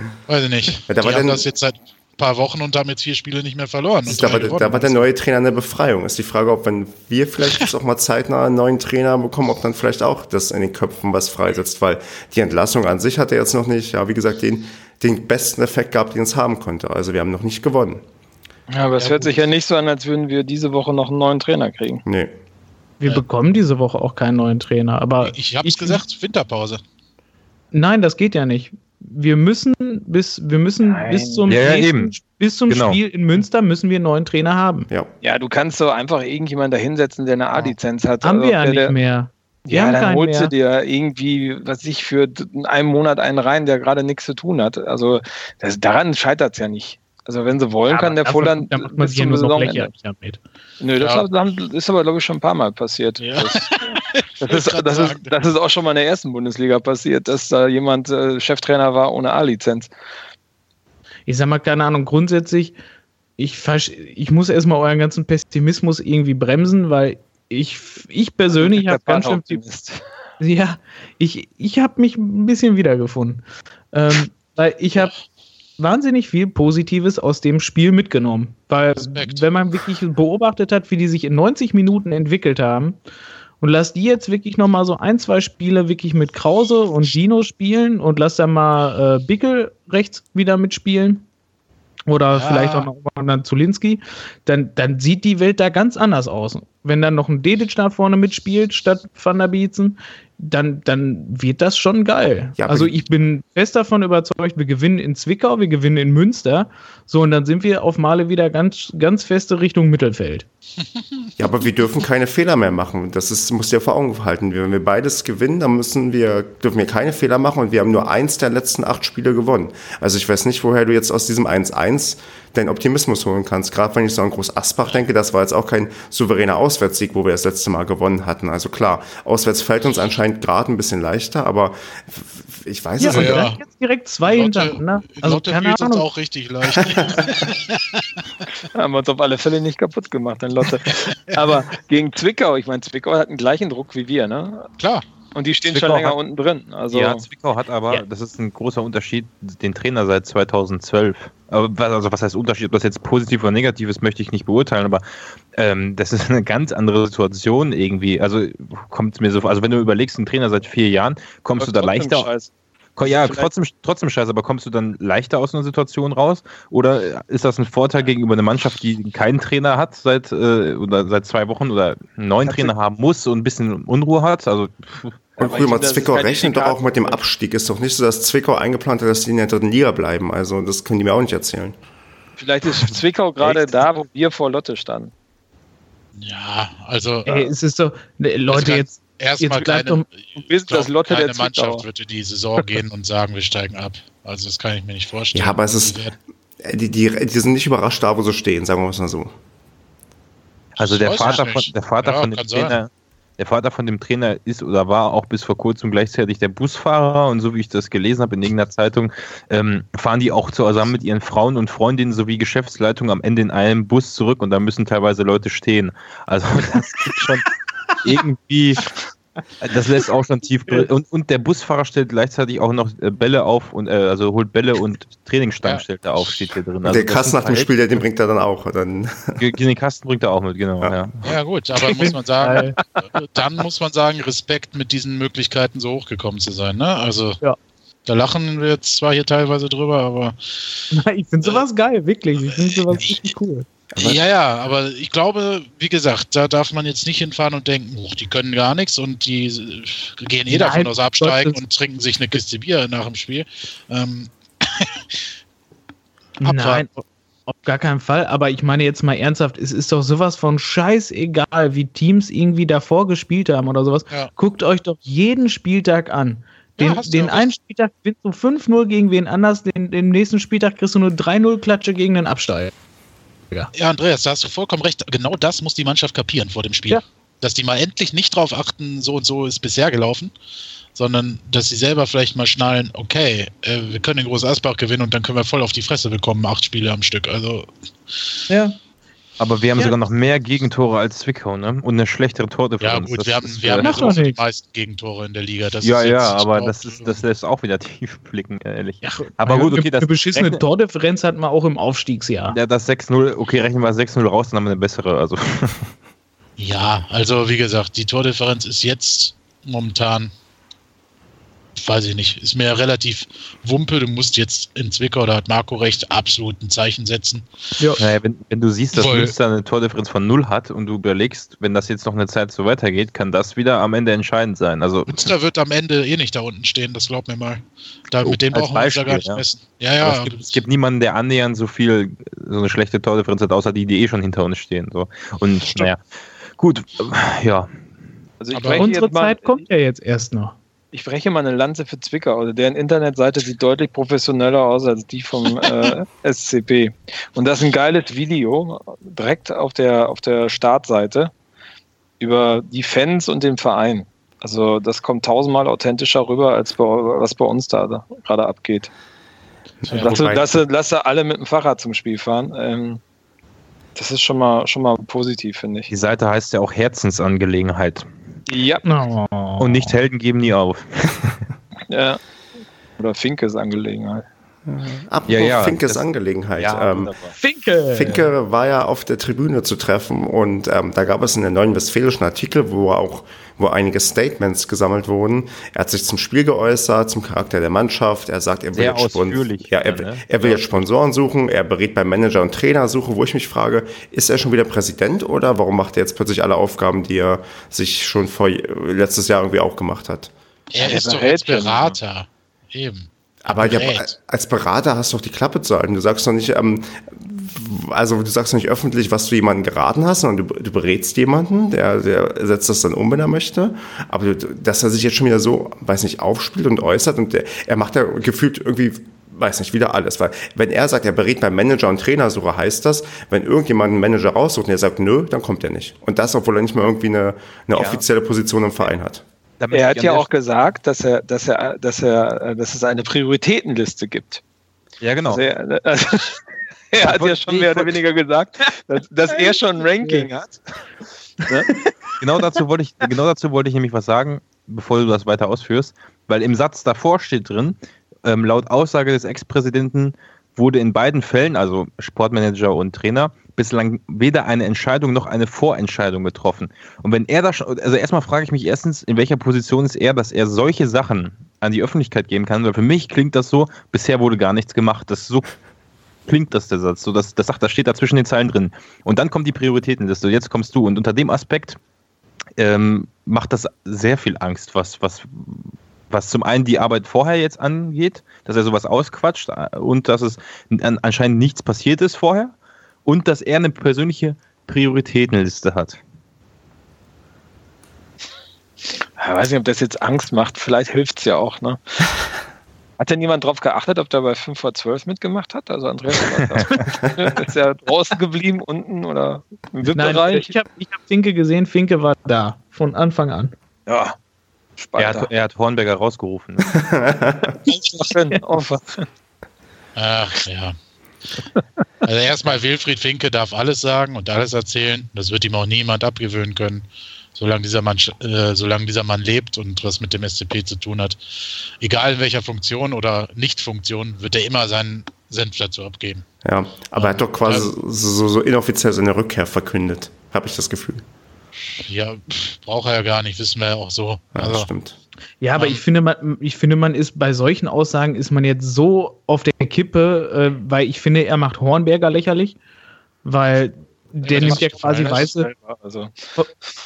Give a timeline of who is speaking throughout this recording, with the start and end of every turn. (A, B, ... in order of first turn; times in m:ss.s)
0:00.3-0:05.1 A
0:00.9-0:01.4 B
0:04.0-0:18.0 B
0:18.7-0:22.0 C
0:19.0-0:19.3 A
0:22.1-0:22.3 B
0:23.0-0:26.0 D
0:25.2-0:26.8 A
0:27.7-0:34.9 D
0:30.8-0:31.5 C
0:31.5-0:32.1 E
0:32.7-0:33.0 E
0:35.2-0:38.9 C
0:38.2-0:40.5 D
0:39.7-0:49.9 C
0:47.9-0:50.4 D
0:50.8-0:59.9 C
0:51.0-0:51.3 A
0:53.2-0:55.3 A
1:01.3-1:02.8 D
1:03.4-1:09.6 D
1:08.5-1:10.0 C
1:10.4-1:15.1 D
1:15.8-1:23.0 D
1:19.1-1:19.5 A
1:23.6-1:31.3 D
1:32.1-1:50.5 D
1:32.3-1:32.9 A
1:42.6-1:43.0 B
1:51.4-2:13.5 B
2:13.0-2:16.1 D
2:13.1-2:13.6 A
2:14.2-2:18.2 A
2:18.7-2:24.7 C
2:24.8-2:25.0 A
2:25.3-2:27.2 C
2:25.7-2:26.2 E
2:26.9-2:42.3 E
2:41.6-2:42.5 C
2:43.0-2:55.2 E
2:43.0-2:43.5 C
2:52.4-2:52.7 C
2:55.4-2:57.2 C
2:55.4-3:01.8 B
3:02.4-3:05.1 C
3:03.4-3:03.7 E
3:06.2-3:07.5 A
3:07.3-3:10.0 D
3:08.5-3:16.1 A
3:10.4-3:11.8 C
3:15.3-3:16.0 B
3:16.6-3:19.3 B
3:20.8-3:22.8 A
3:20.8-3:37.5 E
3:38.0-3:38.9 E
3:39.6-3:47.7 E
3:46.8-3:49.4 B
3:49.4-3:51.2 E
3:51.2-3:57.4 A
3:51.8-3:52.8 D
3:58.1-4:00.8 A
4:00.9-4:03.7 D
4:02.4-4:03.2 A
4:03.9-4:04.2 B
4:04.0-4:15.0 A
4:10.5-4:11.6 D
4:16.4-4:32.7 D
4:16.4-4:16.9 A
4:26.8-4:27.5 A
4:33.7-4:40.3 A
4:41.0-4:48.2 A
4:48.5-4:48.8 D
4:49.4-4:54.2 E
4:52.8-4:57.2 A
4:53.8-4:54.4 D
4:55.8-5:00.6 E
4:59.0-5:02.6 D
5:02.5-5:05.9 E
5:06.6-5:10.3 A
5:11.8-5:17.4 A
5:18.0-5:25.3 E
5:18.9-5:19.4 A
5:25.1-5:30.5 A
5:28.2-5:29.4 E
5:30.0-5:36.0 E
5:36.6-5:37.7 E
5:38.4-5:39.7 C
5:38.5-5:38.9 A
5:38.8-5:40.6 D
5:40.9-5:51.3 C
5:52.2-5:58.9 C
5:59.9-6:00.4 A
5:59.9-6:03.0 C
6:04.0-6:05.9 C
6:05.9-6:08.1 E
6:08.5-6:08.9 C
6:08.8-6:09.9 D
6:09.6-6:11.4 E
6:11.9-6:12.2 C
6:13.0-6:14.3 C
6:14.7-6:17.1 B
6:15.3-6:16.0 E
6:16.6-6:17.4 E
6:17.4-6:18.3 D
6:17.9-6:40.3 B
6:28.8-6:30.8 E
6:40.7-6:44.1 A
6:40.8-6:41.9 C
6:43.4-7:09.2 B
7:07.8-7:08.0 C
7:09.6-7:10.3 E
7:09.7-7:14.4 C
7:15.0-7:15.4 E
7:15.3-7:20.6 C
7:17.0-7:17.9 E
7:19.3-7:20.3 D
7:21.5-7:21.9 D
7:22.2-7:45.5 E
7:46.3-7:51.8 E
7:52.6-8:02.5 E
8:03.0-8:06.0 E
8:09.2-8:11.8 C
8:13.0-8:20.5 C
8:16.4-8:16.7 E
8:19.9-8:23.5 D
8:23.9-8:24.2 C
8:24.8-8:25.3 C
8:25.0-8:26.8 E
8:26.7-8:27.5 B
8:27.6-8:29.1 C
8:30.0-8:30.8 A
8:32.0-8:41.2 A
8:41.8-8:46.2 A
8:46.4-8:51.0 B
8:47.0-8:47.7 A
8:51.8-8:54.7 A
8:54.4-8:55.0 B
8:55.4-9:02.6 D
8:55.6-8:55.8 A
9:03.2-9:05.5 D
9:04.3-9:05.3 A
9:04.3-9:06.2 C